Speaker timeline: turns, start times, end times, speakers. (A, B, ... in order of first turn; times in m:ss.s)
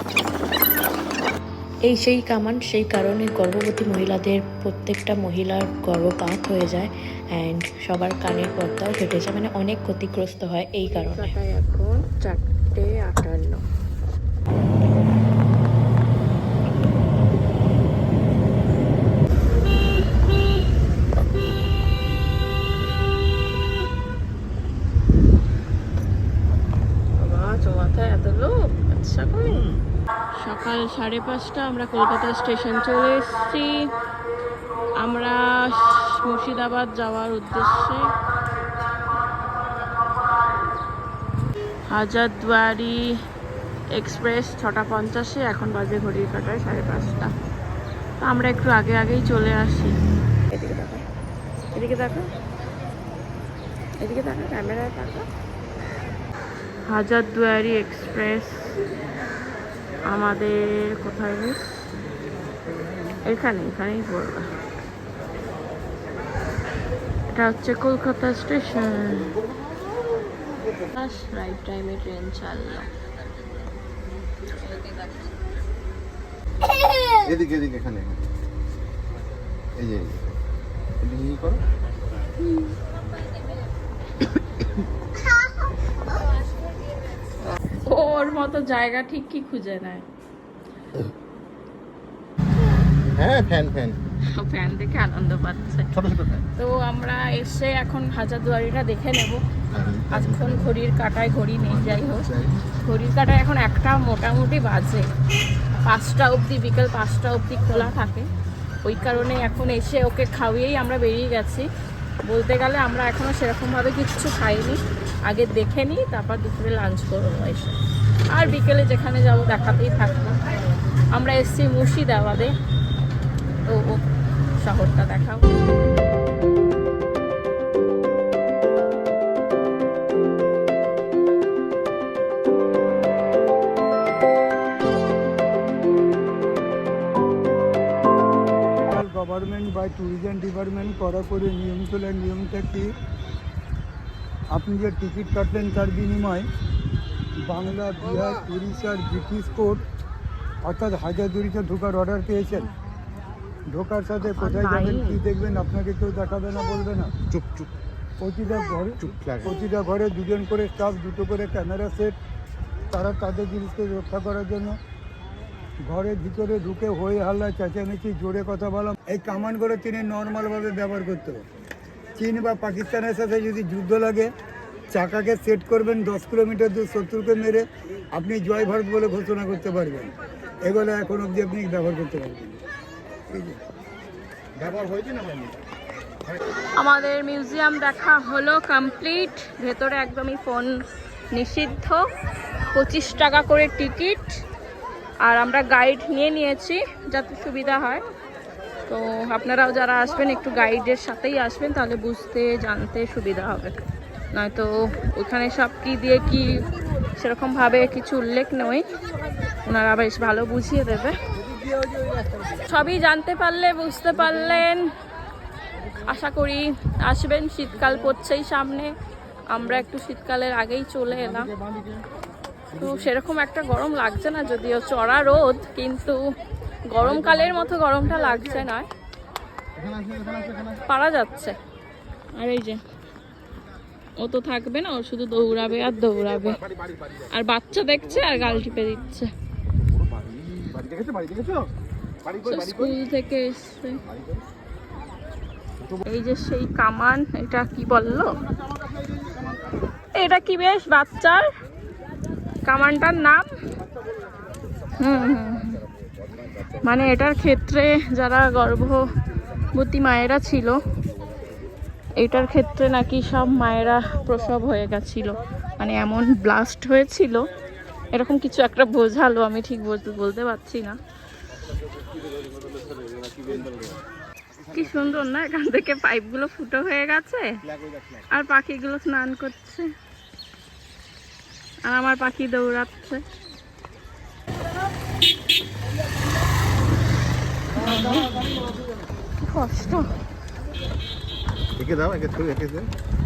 0:01.9-0:11.3 A
0:10.9-0:13.6 B
0:27.2-0:29.7 B
0:30.4-0:33.9 B
0:35.0-0:38.1 B
0:41.9-0:43.1 B
0:43.9-0:47.3 B
0:48.2-0:50.0 B
0:50.5-0:51.0 B
0:51.8-0:52.3 B
0:54.0-0:55.3 B
0:56.9-0:58.8 B
1:00.1-1:01.7 B
1:03.2-1:04.5 B
1:07.3-1:09.4 B
1:10.9-1:12.9 B
1:17.2-1:18.3 C
1:19.8-1:20.4 C
1:21.0-1:21.6 C
1:27.8-1:30.0 B
1:33.1-1:34.0 C
1:34.3-1:35.9 B
1:35.9-1:36.4 C
1:36.6-1:39.4 B
1:39.7-1:40.6 C
1:40.1-1:45.1 B
1:41.8-1:42.6 C
1:45.8-1:48.3 B
1:48.8-1:51.7 B
1:52.3-1:57.8 B
1:58.3-2:00.4 B
2:01.1-2:02.5 B
2:03.7-2:05.6 B
2:18.9-2:22.9 D
2:24.5-2:26.5 D
2:27.4-2:29.8 D
2:30.6-2:32.7 D
2:33.7-2:37.1 D
2:34.3-2:35.2 B
2:37.3-2:37.7 C
2:38.2-2:42.1 D
2:39.0-2:39.5 C
2:42.9-2:44.8 D
2:45.8-2:51.4 D
2:52.2-2:54.3 D
2:54.9-3:00.1 D
3:00.6-3:02.6 D
3:03.3-3:03.6 D
3:04.6-3:05.5 C
3:06.8-3:10.8 B
3:11.3-3:12.1 B
3:12.7-3:14.4 B
3:15.2-3:18.0 B
3:18.9-3:23.8 B
3:24.3-3:26.7 B
3:27.2-3:28.8 B
3:29.6-3:31.2 B
3:32.6-3:34.9 B
3:36.0-3:38.9 B
3:39.5-3:41.5 B
3:41.5-3:42.0 C
3:42.7-3:46.3 B
3:46.9-3:48.9 B
3:49.8-3:50.8 C
3:50.9-3:51.6 B
3:52.4-3:52.8 B
3:54.2-3:56.6 B
3:57.3-3:59.3 B
3:58.2-3:58.4 C
3:59.8-4:01.7 C
4:02.2-4:03.0 C
4:02.4-4:04.0 B
4:04.1-4:04.4 C
4:06.0-4:08.3 B
4:10.1-4:11.5 B
4:12.7-4:13.5 B
4:15.0-4:15.8 B
4:16.8-4:19.1 B
4:19.7-4:20.8 B
4:22.2-4:27.4 B
4:28.1-4:31.0 B
4:32.4-4:34.0 C
4:34.6-4:35.1 C
4:34.7-4:37.6 B
4:37.7-4:38.2 C
4:38.3-4:39.9 B
4:41.9-4:43.2 B
4:47.8-4:48.4 B
4:48.2-4:48.5 C
4:49.4-4:50.1 B
4:51.8-4:52.9 C